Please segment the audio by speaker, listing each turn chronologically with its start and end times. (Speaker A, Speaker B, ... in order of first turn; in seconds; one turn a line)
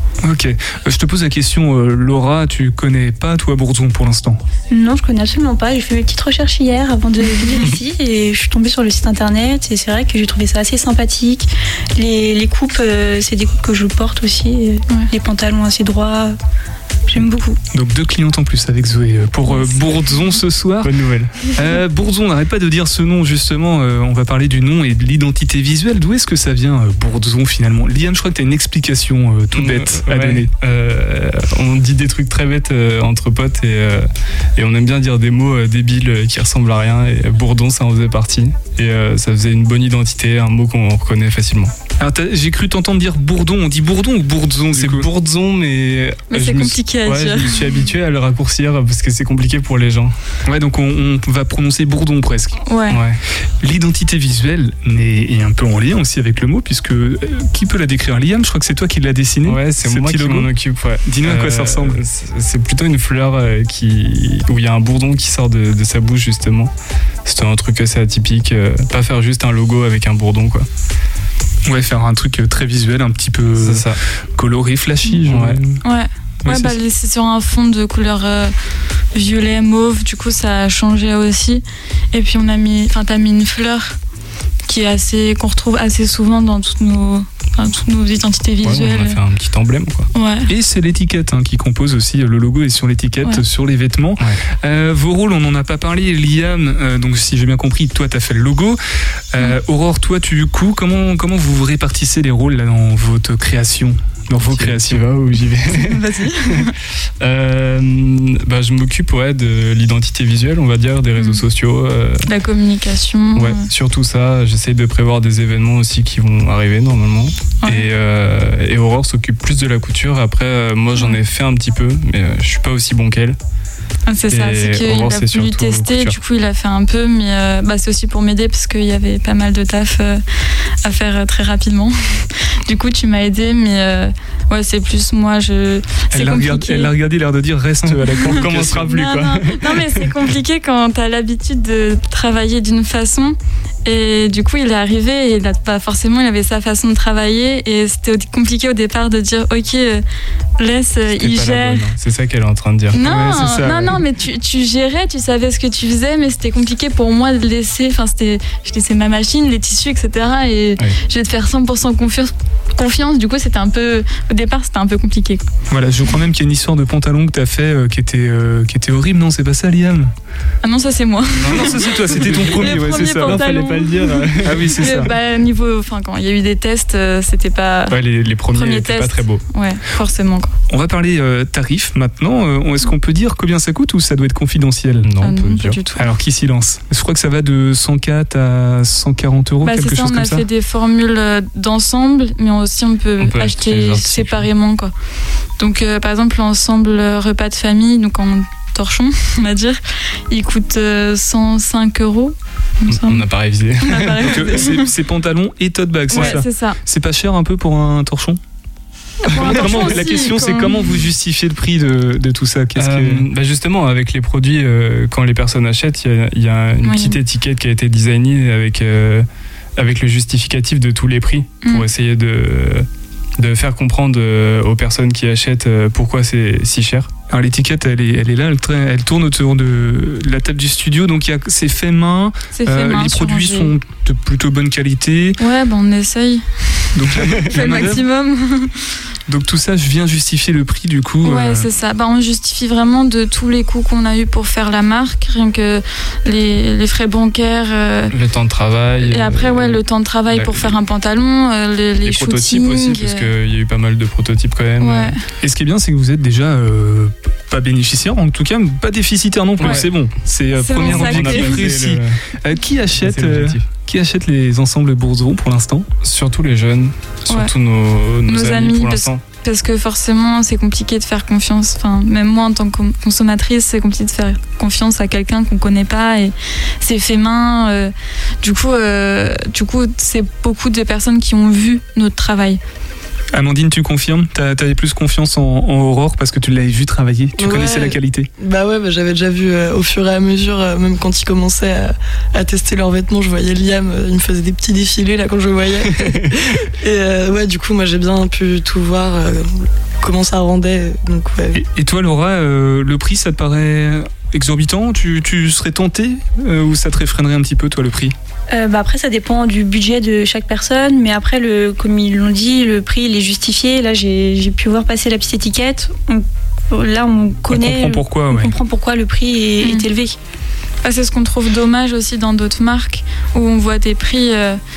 Speaker A: 0.2-4.4
Speaker B: 4.7-16.4
Speaker B: 17.1-17.6
Speaker A: 17.7-20.9
Speaker C: 19.5-19.8
Speaker D: 20.8-21.4
Speaker A: 21.5-30.5
Speaker D: 29.5-41.7
Speaker A: 42.0-45.1
Speaker D: 44.7-50.1
Speaker C: 46.3-47.8
Speaker A: 50.5-52.6
Speaker C: 52.7-53.0
Speaker D: 52.9-53.2
Speaker A: 53.6-60.5
Speaker D: 59.5-66.7
Speaker A: 61.0-62.0
Speaker D: 67.3-70.7
Speaker A: 71.7-75.8
Speaker D: 73.6-74.0
Speaker D: 75.3-75.6
Speaker C: 75.8-78.5
Speaker A: 76.5-76.7
Speaker C: 79.1-84.0
Speaker C: 84.7-89.2
Speaker D: 88.6-90.1
Speaker C: 90.1-90.5
Speaker A: 90.5-98.8
Speaker A: 99.3-105.0
Speaker D: 104.4-106.7
Speaker C: 105.7-106.7
Speaker D: 107.2-112.3
Speaker C: 112.3-113.6
Speaker D: 113.3-123.4
Speaker C: 124.1-130.2
Speaker D: 124.3-126.2
Speaker C: 130.8-136.9
Speaker A: 136.1-139.2
Speaker D: 137.9-139.8
Speaker C: 138.3-150.0
Speaker C: 150.6-151.9
Speaker D: 151.1-153.9
Speaker C: 152.9-165.5
Speaker A: 153.0-154.0
Speaker A: 165.7-170.1
Speaker C: 170.6-178.0
Speaker D: 171.4-175.1
Speaker A: 171.5-173.6
Speaker A: 174.4-175.1
Speaker D: 177.9-179.4
Speaker C: 178.5-180.5
Speaker A: 180.7-185.1
Speaker D: 185.1-185.8
Speaker C: 185.2-186.1
Speaker A: 185.9-190.4
Speaker C: 189.6-194.9
Speaker D: 193.2-194.5
Speaker C: 195.6-203.2
Speaker D: 202.9-204.6
Speaker C: 203.8-204.9
Speaker A: 204.2-208.4
Speaker C: 206.1-206.8
Speaker C: 209.2-211.1
Speaker A: 209.3-213.2
Speaker D: 212.8-219.3
Speaker C: 216.8-217.2
Speaker D: 219.8-222.9
Speaker D: 223.4-227.1
Speaker A: 227.3-235.4
Speaker C: 232.5-233.7
Speaker C: 235.4-238.8
Speaker A: 236.9-238.0
Speaker D: 237.2-237.5
Speaker A: 239.3-241.7
Speaker C: 241.2-248.1
Speaker D: 248.1-250.8
Speaker C: 249.0-253.3
Speaker D: 252.0-255.2
Speaker C: 254.8-255.2
Speaker A: 255.4-265.9
Speaker D: 259.6-260.0
Speaker C: 259.6-259.9
Speaker C: 260.6-261.7
Speaker D: 260.7-262.2
Speaker D: 263.0-263.6
Speaker D: 266.0-269.2
Speaker C: 268.3-282.6
Speaker A: 283.3-288.3
Speaker E: 287.4-301.6
Speaker A: 301.5-308.1
Speaker B: 308.5-320.2
Speaker A: 317.5-318.5
Speaker C: 320.8-324.6